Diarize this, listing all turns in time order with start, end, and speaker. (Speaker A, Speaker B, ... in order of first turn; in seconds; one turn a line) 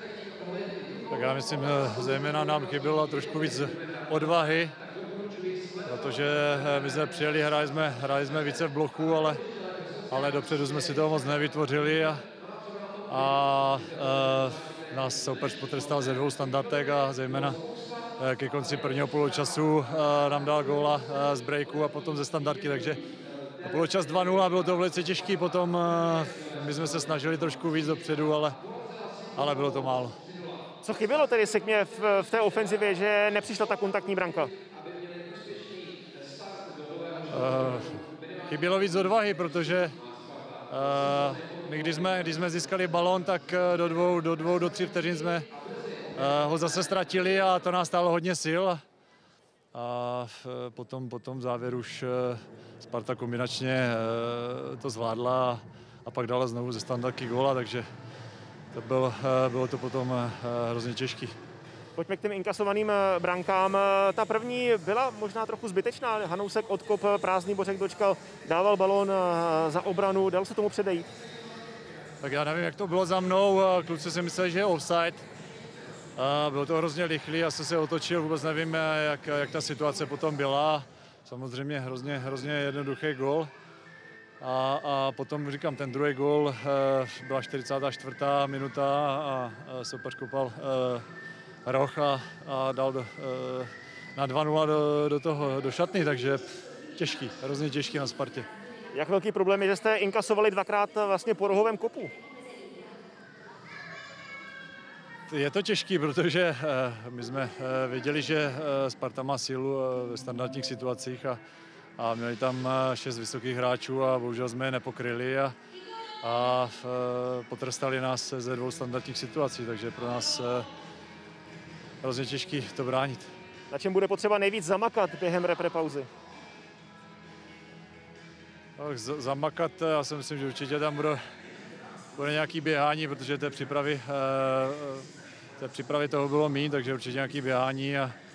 Speaker A: 1.1-4.7
Speaker A: 5.8-9.4
Speaker A: 10.1-12.2
Speaker A: 13.1-17.6
Speaker A: 18.2-23.0
Speaker A: 23.6-28.6
Speaker A: 29.4-30.2
Speaker B: 30.8-34.5
Speaker A: 37.3-40.0
Speaker A: 40.7-45.5
Speaker A: 46.1-48.8
Speaker A: 49.7-57.9
Speaker A: 58.7-61.3
Speaker B: 62.0-71.1
Speaker A: 72.2-75.2
Speaker A: 76.2-83.5
Speaker A: 84.4-91.0
Speaker A: 91.6-96.4
Speaker A: 97.0-98.5
Speaker B: 98.9-102.1
Speaker A: 105.3-111.4
Speaker A: 112.0-115.5
Speaker A: 116.2-120.7
Speaker A: 122.0-123.3
Speaker B: 123.7-126.1
Speaker A: 128.8-131.2
Speaker A: 132.2-138.1